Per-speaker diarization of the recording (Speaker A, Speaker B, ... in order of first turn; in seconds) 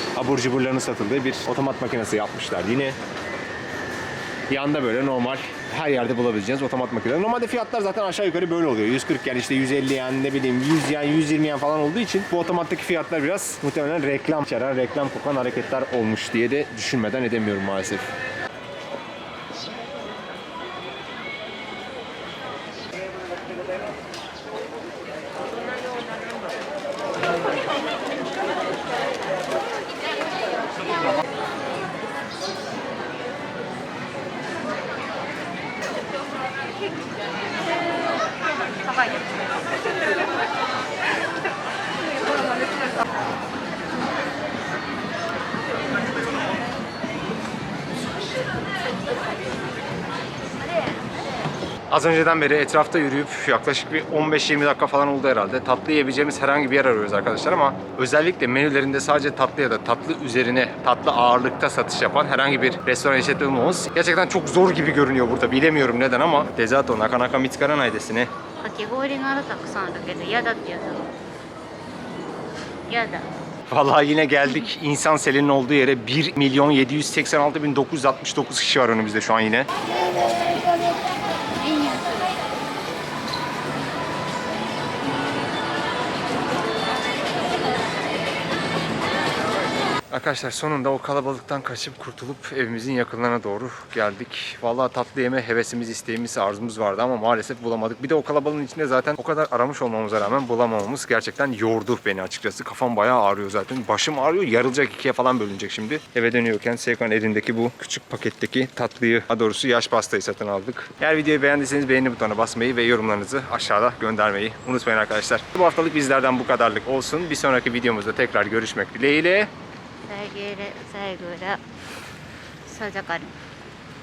Speaker A: 0.1-3.0, 4.5-18.1, 51.9-68.3, 73.7-79.7, 90.1-119.5
Speaker B: 38.9-39.3, 68.6-71.1, 72.9-73.2, 120.1-121.6, 122.7-123.3